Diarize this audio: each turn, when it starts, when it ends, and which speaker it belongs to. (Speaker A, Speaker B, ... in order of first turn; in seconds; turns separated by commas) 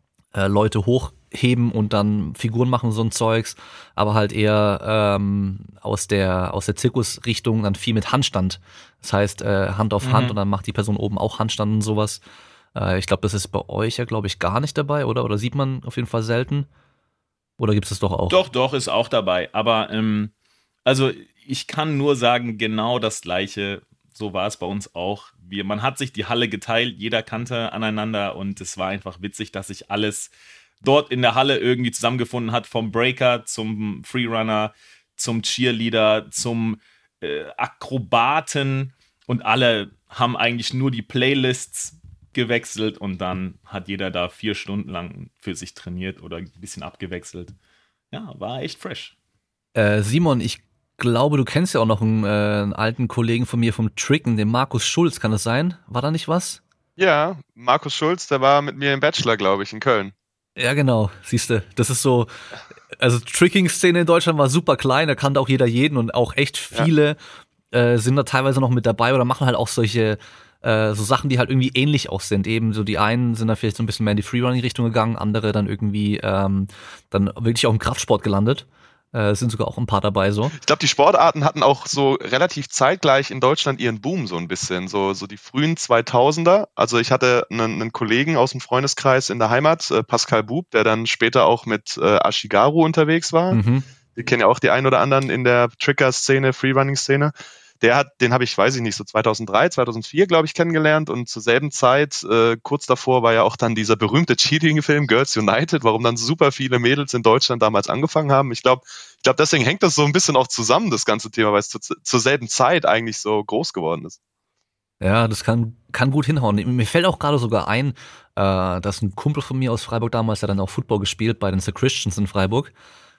Speaker A: 0.3-12.2, Speaker B: 10.0-10.4, Speaker A: 12.8-16.7, Speaker A: 17.6-18.4, Speaker B: 18.3-20.3, Speaker B: 20.9-47.5, Speaker B: 48.1-49.1, Speaker A: 49.8-56.6, Speaker C: 57.0-60.1, Speaker A: 60.6-62.3, Speaker A: 63.0-67.2, Speaker A: 67.7-80.5, Speaker C: 80.6-93.6, Speaker A: 93.5-93.9, Speaker C: 94.2-114.2, Speaker A: 115.0-122.7